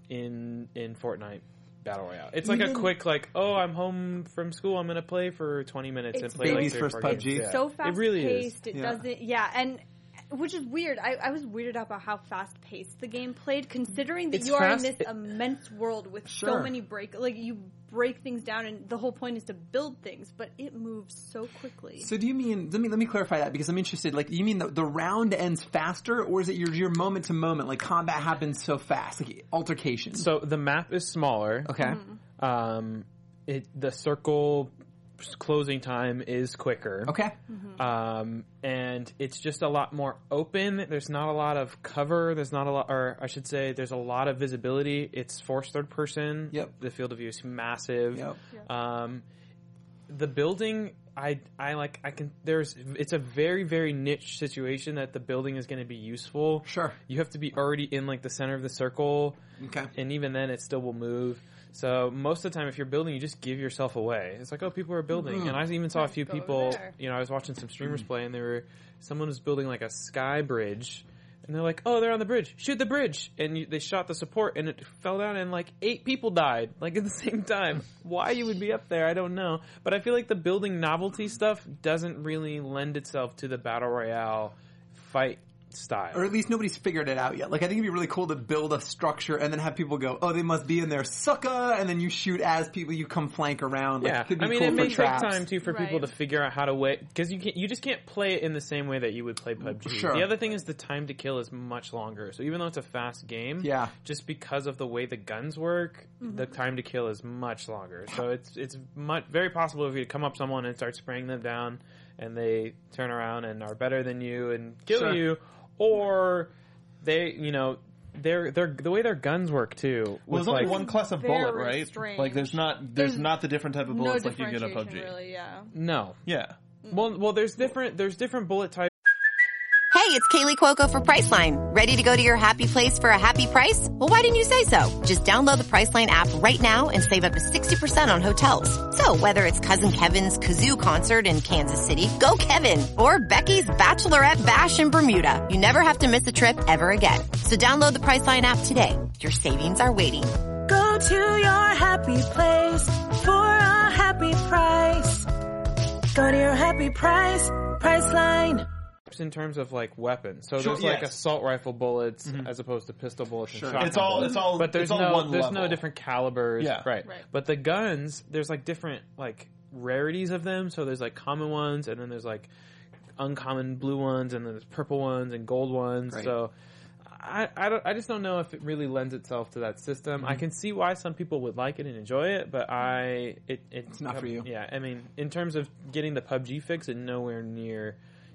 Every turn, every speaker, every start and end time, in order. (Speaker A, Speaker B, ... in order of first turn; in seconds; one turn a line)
Speaker A: 0.1-8.6
Speaker B: 2.4-2.9
Speaker C: 6.1-22.1
Speaker B: 6.4-7.5
Speaker B: 8.7-9.0
Speaker A: 14.3-15.1
Speaker B: 16.3-16.7
Speaker B: 22.0-30.3
Speaker A: 30.1-37.2
Speaker B: 31.6-32.0
Speaker C: 31.8-32.2
Speaker B: 37.0-37.3
Speaker C: 37.5-37.8
Speaker A: 37.8-49.2
Speaker A: 50.1-59.4
Speaker B: 56.6-57.0
Speaker B: 59.6-59.9
Speaker A: 59.9-86.3
Speaker B: 65.2-65.6
Speaker C: 65.9-66.9
Speaker B: 86.1-95.4
Speaker A: 94.0-120.7
Speaker C: 94.7-96.1
Speaker B: 99.6-100.3
Speaker B: 103.6-103.9
Speaker C: 106.2-106.5
Speaker B: 114.9-115.2
Speaker D: 120.3-125.2
Speaker C: 120.5-123.3
Speaker C: 123.9-125.7
Speaker A: 125.7-126.2
Speaker D: 126.2-126.5
Speaker C: 126.8-127.1
Speaker A: 126.9-128.9
Speaker E: 129.9-150.3
Speaker F: 150.7-155.3
Speaker F: 156.1-158.7
Speaker A: 159.1-172.5
Speaker B: 160.6-161.0
Speaker D: 160.8-161.0
Speaker B: 163.5-164.3
Speaker D: 163.7-165.8
Speaker D: 166.6-166.8
Speaker A: 173.2-176.5
Speaker A: 177.1-188.0
Speaker B: 183.9-184.5